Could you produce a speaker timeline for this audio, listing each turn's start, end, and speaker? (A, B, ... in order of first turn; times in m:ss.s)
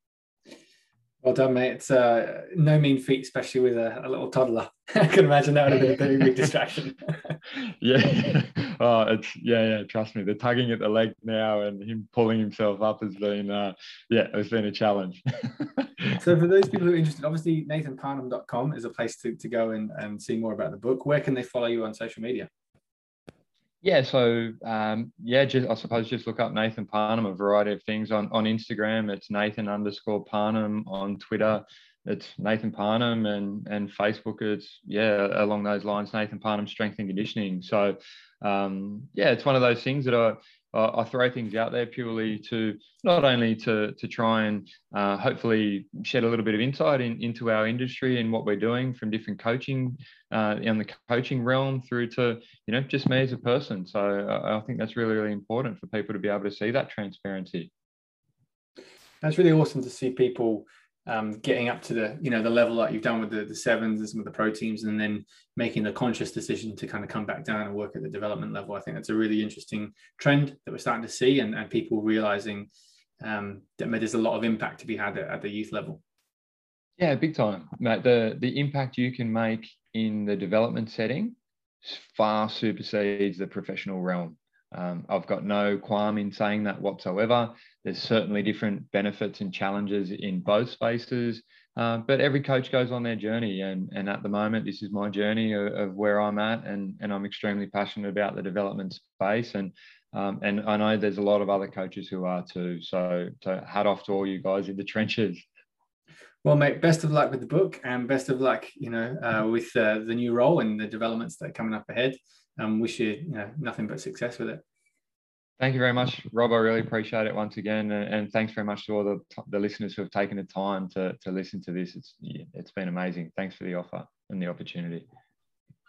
0:01.2-0:07.4 A
0:07.6-0:16.2 B
0:16.1-0:22.5 A
0:23.8-0:57.7 B
0:59.2-1:12.7 A
1:13.2-1:16.0 A
1:17.0-1:45.4 B
1:46.4-1:54.6 A
1:55.6-2:05.1 B